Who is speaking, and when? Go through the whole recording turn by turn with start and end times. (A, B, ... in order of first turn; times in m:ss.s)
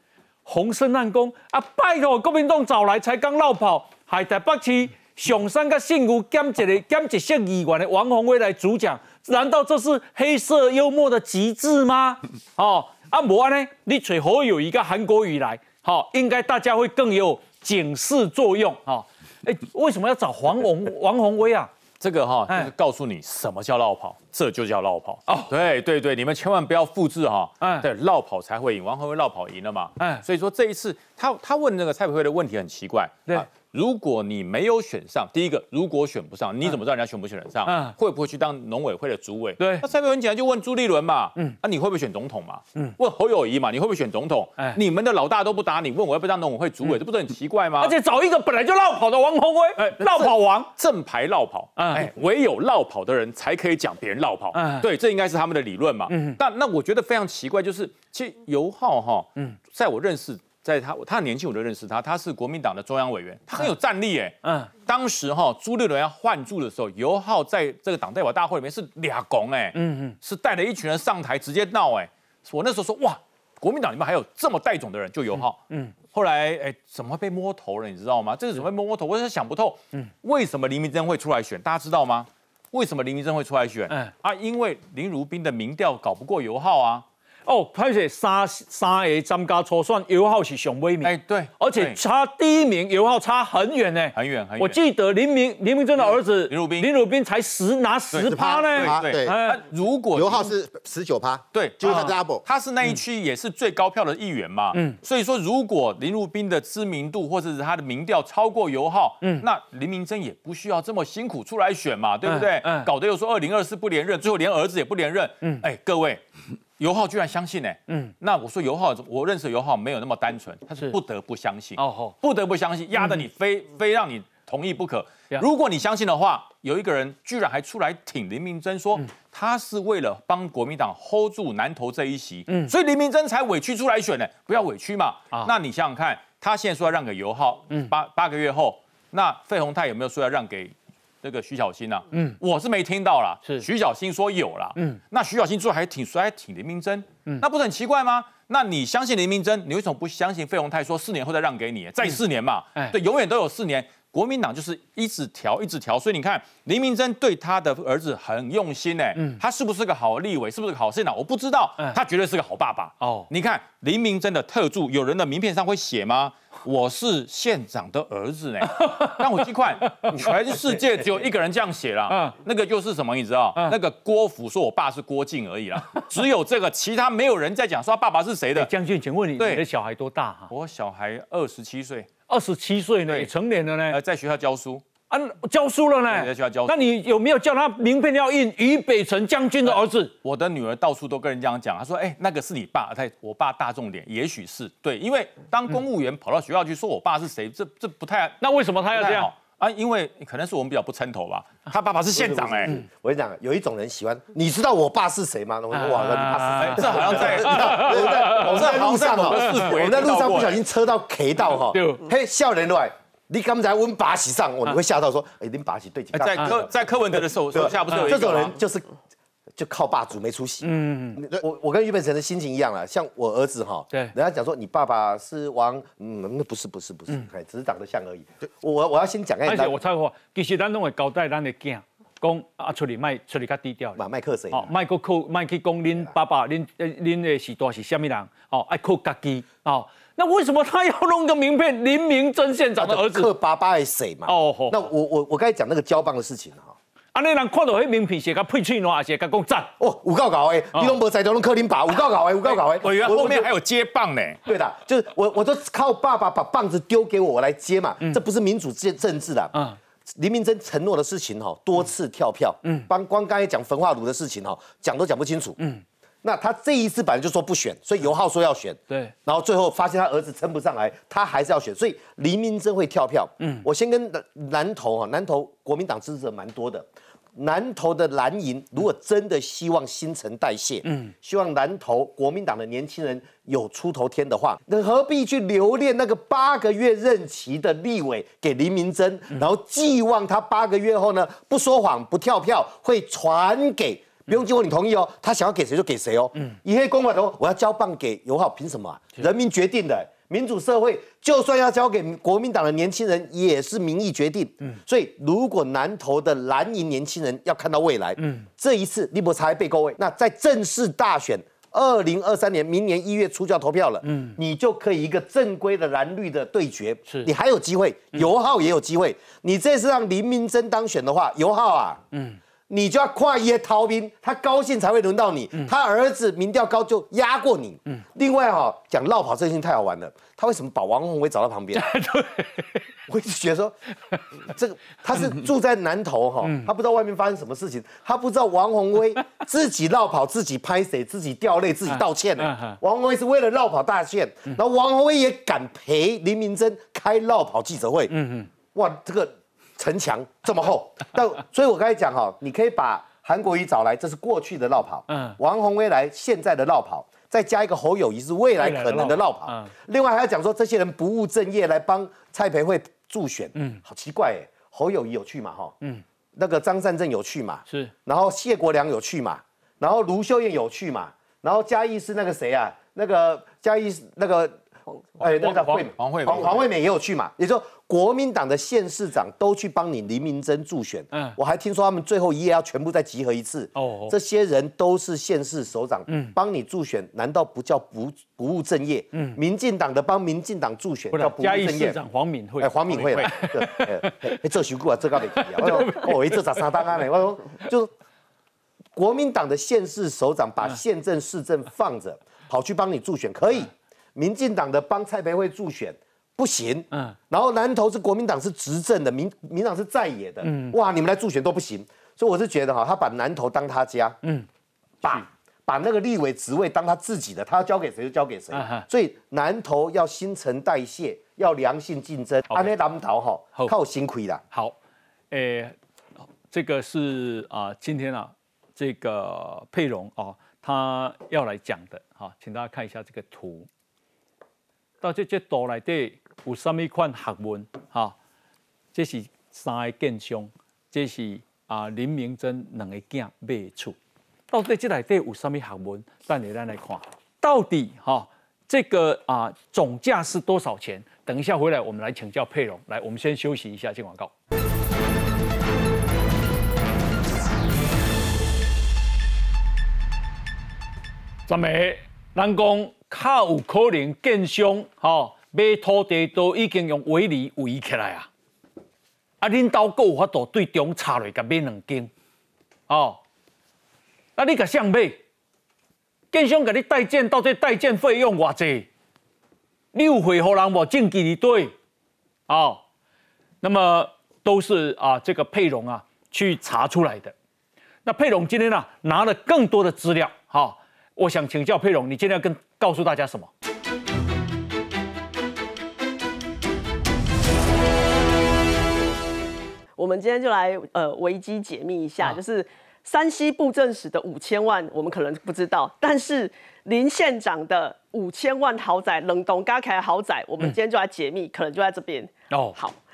0:00.4-0:21.7 A
0:22.0-0:47.9 B
0:27.6-0:27.9 A
0:37.7-0:38.0 A
0:39.6-0:39.8 A
0:47.8-0:50.7 A
0:50.0-1:15.6 B
0:51.8-0:52.1 A
0:54.5-0:54.9 A
0:56.1-0:56.4 A
1:04.4-1:04.7 A
1:09.8-1:10.2 A
1:16.1-1:27.1 B
1:27.5-1:39.6 A
1:31.0-1:32.0 B
1:34.1-1:34.8 B
1:36.1-1:36.9 B
1:38.1-1:40.6 B
1:38.3-1:39.4 C
1:40.1-1:42.4 C
1:41.5-1:56.2 B
1:44.7-1:45.0 A
1:52.3-1:52.9 A
1:56.8-2:58.7 B
2:01.8-2:02.2 A
2:22.1-2:22.4 A
2:43.0-2:43.3 A
2:48.7-2:49.2 A
2:49.9-2:50.4 A
2:52.1-2:52.4 A
2:58.6-3:00.5 A
2:59.4-2:59.6 B
3:00.5-3:02.1 B
3:02.3-3:04.0 A
3:03.9-3:04.8 B
3:05.1-3:10.1 A
3:06.1-3:06.8 B
3:09.6-3:18.4 B
3:18.4-3:19.3 A
3:18.9-3:22.7 B
3:22.2-3:36.8 D
3:25.7-3:28.8 A
3:26.6-3:30.6 B
3:29.3-3:29.7 A
3:31.7-3:32.0 A
3:36.1-3:38.6 B
3:37.5-3:38.9 D
3:37.9-3:38.3 A
3:39.6-3:49.8 D
3:40.6-3:41.2 A
3:49.4-4:03.3 A
3:54.0-3:54.7 D
4:02.8-4:06.8 D
4:04.3-4:04.8 A
4:07.1-4:09.7 A
4:09.8-4:13.5 D
4:12.5-4:14.4 B
4:14.5-4:19.5 D
4:20.1-4:25.6 D
4:26.2-5:22.0 D
4:33.4-4:33.6 A
4:40.8-4:41.1 A
5:08.2-5:08.5 A
5:14.0-5:14.4 A
5:22.1-5:22.4 A
5:22.7-5:32.0 D
5:31.7-5:32.8 A
5:33.1-5:33.8 D
5:34.4-5:48.1 D
5:36.4-5:36.7 A
5:41.9-5:42.8 A
5:48.1-5:48.5 A
5:48.7-6:05.8 D
5:55.1-5:55.4 A
5:58.6-5:59.7 A
6:03.6-6:03.8 A
6:06.4-6:14.6 D
6:15.2-6:32.0 D
6:15.4-6:15.9 A
6:16.0-6:16.6 B
6:23.8-6:24.2 A
6:26.1-6:26.4 A
6:31.1-6:34.4 A
6:32.6-6:37.9 D
6:32.9-6:33.4 B
6:35.4-6:36.7 A
6:39.0-6:54.2 D
6:50.4-6:50.8 A
6:55.0-7:04.4 D
6:58.5-6:58.9 A
7:04.5-7:04.8 A
7:05.3-7:05.8 A
7:06.5-7:13.7 A
7:15.0-7:18.2 A
7:18.9-7:24.0 A
7:24.5-7:34.3 A
7:41.5-7:48.3 A
7:49.4-7:52.1 A
7:52.9-7:53.2 A
7:54.4-7:55.2 A
7:56.3-7:58.9 A
7:59.9-8:01.7 A
8:02.5-8:02.8 A
8:03.6-8:07.3 A
8:08.0-8:13.5 A
8:20.0-8:33.0 E
8:32.5-8:32.8 A